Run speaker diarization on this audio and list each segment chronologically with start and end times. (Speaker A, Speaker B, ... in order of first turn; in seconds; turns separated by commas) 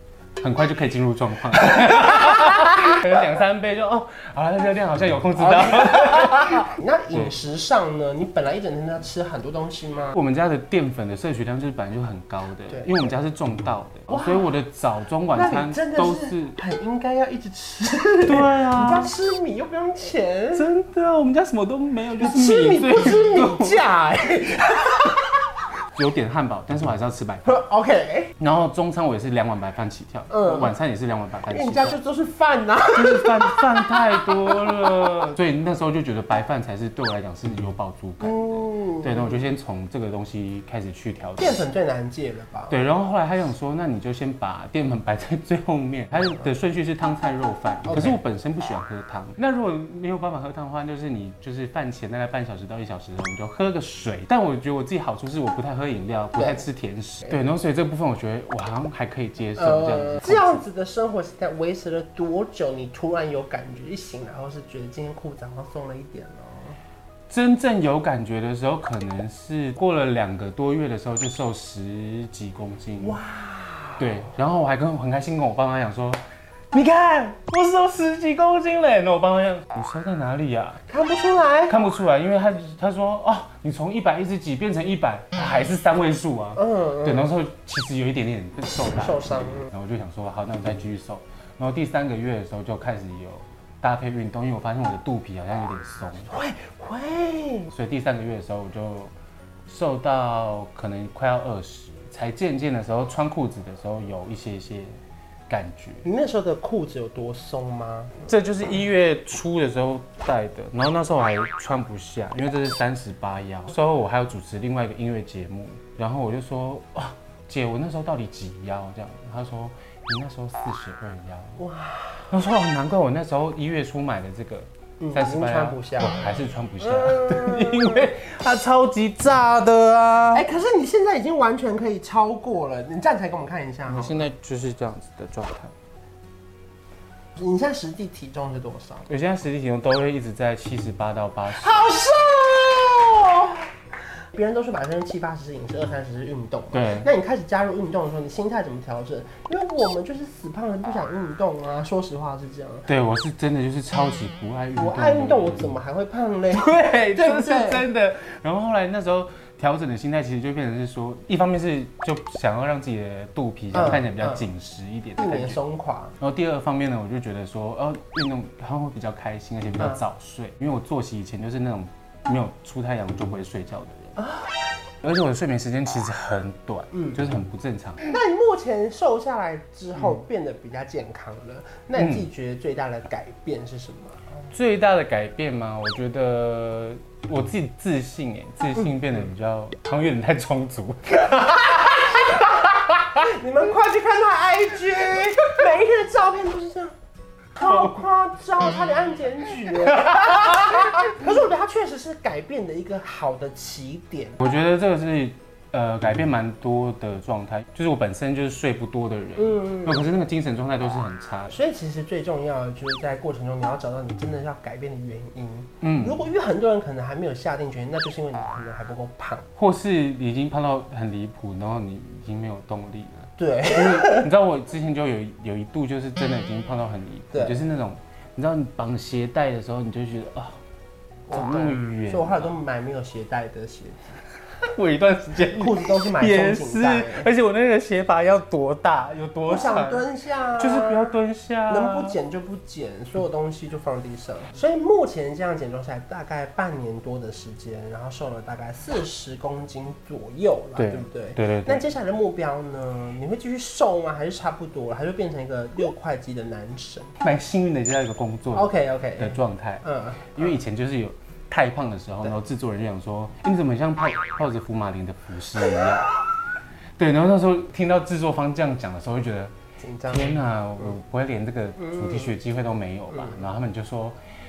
Speaker A: 0.4-7.3, Speaker B: 1.9-2.3, Speaker B: 5.3-10.2, Speaker A: 10.1-16.6, Speaker B: 12.7-13.1, Speaker B: 14.1-14.5, Speaker B: 15.3-20.7, Speaker A: 18.2-19.1, Speaker A: 20.5-23.8, Speaker B: 22.2-25.4, Speaker A: 25.9-27.6, Speaker B: 27.4-28.3, Speaker A: 28.4-32.0, Speaker B: 30.3-30.8, Speaker B: 31.5-35.1, Speaker A: 32.9-41.6, Speaker B: 38.2-39.4, Speaker B: 41.4-42.8, Speaker A: 42.7-60.6, Speaker B: 47.9-48.2, Speaker B: 56.4-56.6, Speaker B: 59.6-66.8, Speaker A: 67.3-73.2, Speaker B: 73.0-74.1, Speaker A: 74.0-76.2, Speaker A: 76.7-80.8, Speaker B: 80.9-81.8, Speaker A: 81.7-96.3, Speaker B: 86.6-87.3, Speaker B: 89.0-89.7, Speaker B: 96.3-97.7, Speaker A: 97.7-99.1, Speaker A: 99.7-104.9, Speaker A: 105.5-106.0, Speaker B: 106.0-108.3, Speaker A: 108.2-121.6, Speaker B: 121.6-122.3, Speaker A: 122.3-130.4, Speaker B: 125.0-128.1, Speaker B: 130.3-134.3, Speaker A: 133.9-135.7, Speaker B: 137.3-139.1, Speaker A: 139.1-141.8, Speaker B: 141.5-143.7, Speaker B: 144.3-152.9, Speaker A: 146.7-147.1, Speaker A: 152.9-155.7, Speaker B: 154.7-157.8, Speaker A: 156.5-165.6, Speaker B: 163.7-164.5, Speaker B: 165.2-166.2, Speaker A: 166.2-174.2, Speaker B: 174.2-174.7, Speaker A: 175.0-178.1, Speaker B: 176.9-177.2, Speaker B: 178.0-184.4, Speaker A: 182.0-182.3, Speaker A: 184.5-192.1, Speaker B: 188.7-189.2, Speaker B: 191.3-196.9, Speaker B: 197.6-204.4, Speaker A: 204.4-211.6, Speaker B: 209.4-210.1, Speaker B: 211.5-219.5, Speaker A: 215.8-216.2, Speaker A: 219.6-230.6, Speaker B: 223.4-224.3, Speaker B: 227.3-227.6, Speaker B: 231.3-234.2, Speaker A: 231.3-232.5, Speaker A: 234.6-240.1, Speaker B: 235.5-237.3, Speaker B: 239.5-241.2, Speaker A: 240.6-242.2, Speaker B: 241.7-257.1, Speaker A: 250.8-251.9, Speaker A: 257.2-266.1, Speaker B: 258.5-260.6, Speaker A: 267.0-269.5, Speaker B: 269.8-270.9, Speaker A: 270.1-274.2, Speaker B: 271.8-272.3, Speaker B: 273.1-273.4